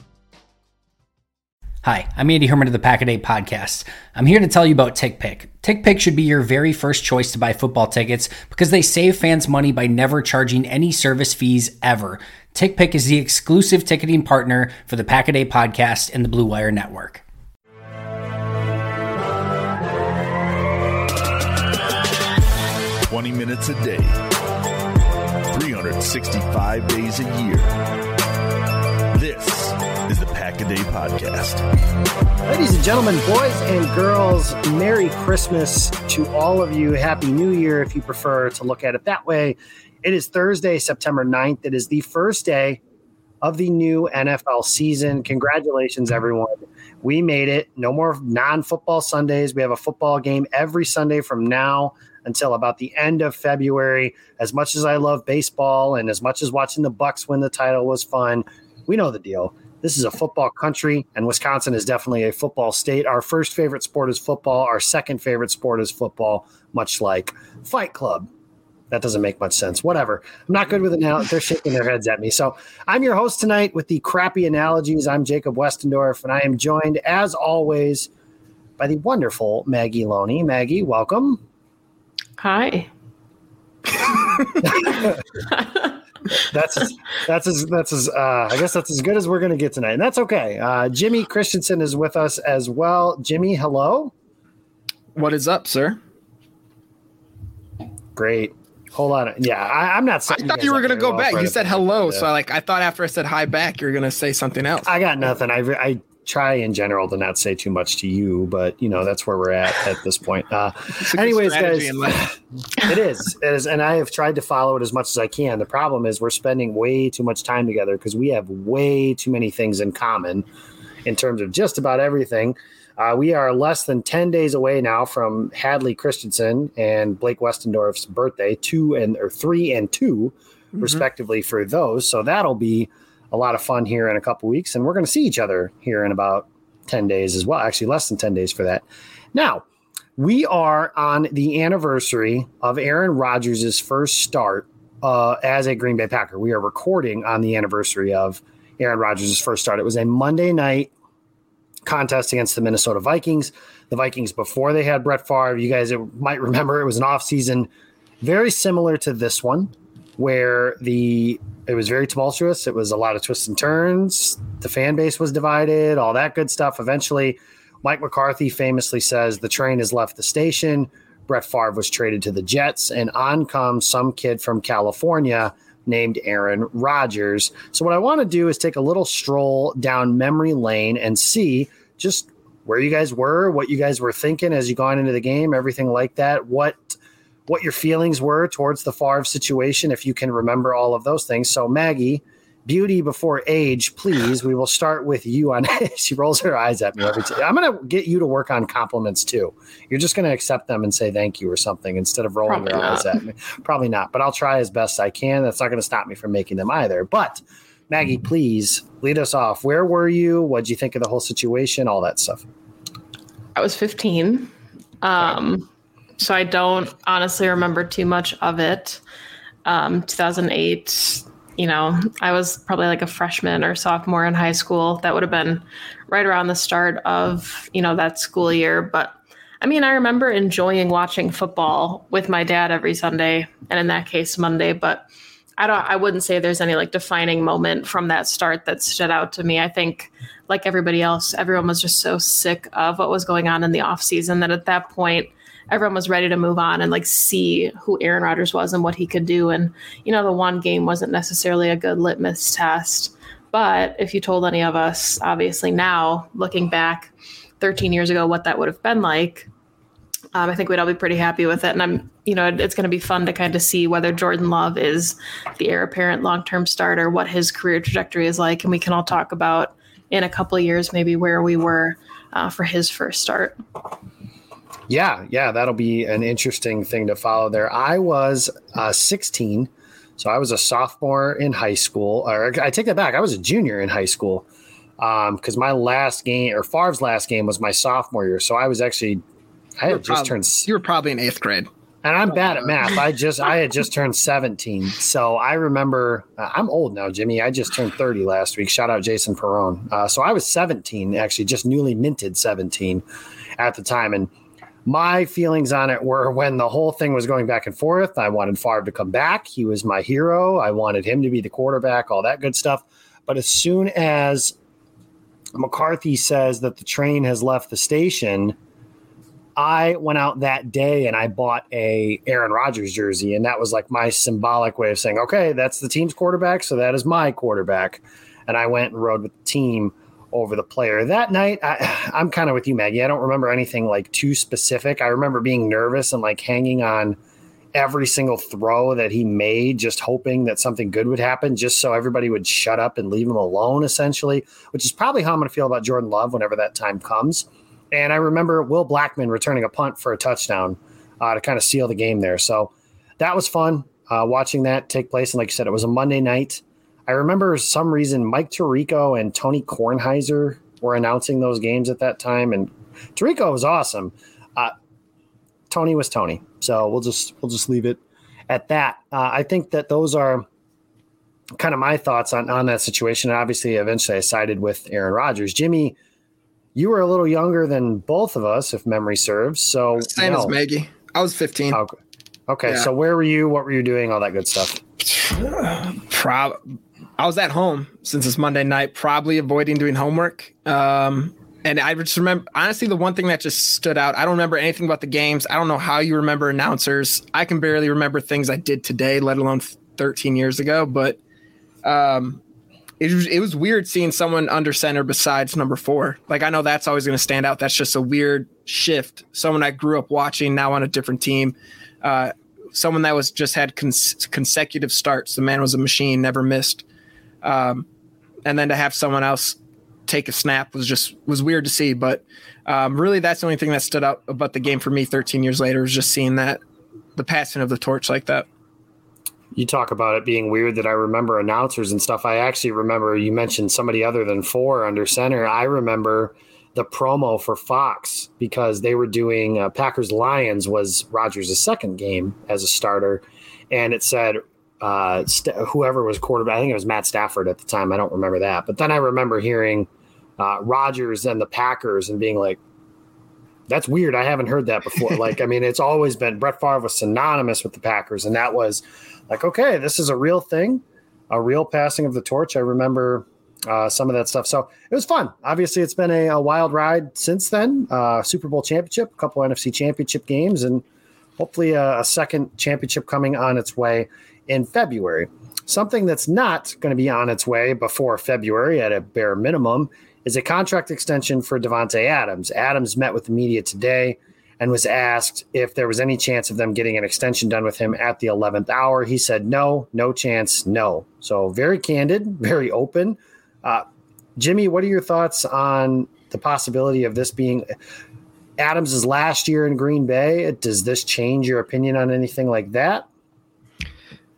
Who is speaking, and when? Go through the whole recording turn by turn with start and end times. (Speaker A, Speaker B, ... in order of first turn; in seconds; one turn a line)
Speaker A: 1.8-17.2
Speaker B: 23.1-24.2
Speaker B: 25.5-27.8
Speaker B: 29.1-31.6
Speaker C: 32.5-42.8
Speaker C: 43.4-68.3
Speaker C: 68.9-78.1
Speaker C: 78.8-81.4
Speaker D: 82.4-82.9
Speaker C: 84.6-85.2
Speaker C: 86.5-94.1
Speaker E: 95.2-96.0
Speaker C: 98.2-102.3
Speaker E: 100.3-104.9
Speaker C: 104.8-120.5
Speaker E: 111.0-112.3
Speaker C: 121.0-139.6
Speaker C: 140.2-150.9
Speaker C: 151.8-212.4
Speaker D: 202.5-203.1
Speaker D: 213.6-215.7
Speaker D: 216.2-219.0
Speaker D: 219.7-235.1
Speaker D: 235.6-259.5
Speaker D: 260.3-273.6
Speaker C: 274.9-284.5
Speaker C: 285.0-289.2
Speaker C: 289.8-290.7
Speaker E: 289.9-291.7
Speaker C: 292.0-303.0
Speaker C: 303.6-304.3
Speaker C: 304.9-314.6
Speaker C: 315.6-318.6
Speaker C: 319.6-337.2
Speaker C: 337.7-364.7
Speaker C: 365.7-370.5
Speaker C: 371.6-376.0
Speaker C: 376.8-380.6
Speaker E: 380.0-381.8
Speaker C: 382.5-384.8
Speaker E: 385.1-386.6
Speaker E: 387.2-401.2
Speaker E: 401.8-402.4
Speaker E: 403.0-416.8
Speaker E: 417.4-417.9
Speaker E: 418.4-426.6
Speaker E: 427.2-428.5
Speaker C: 429.5-452.6
Speaker C: 453.7-470.8
Speaker C: 471.4-493.9
Speaker C: 494.4-497.7
Speaker C: 498.6-503.1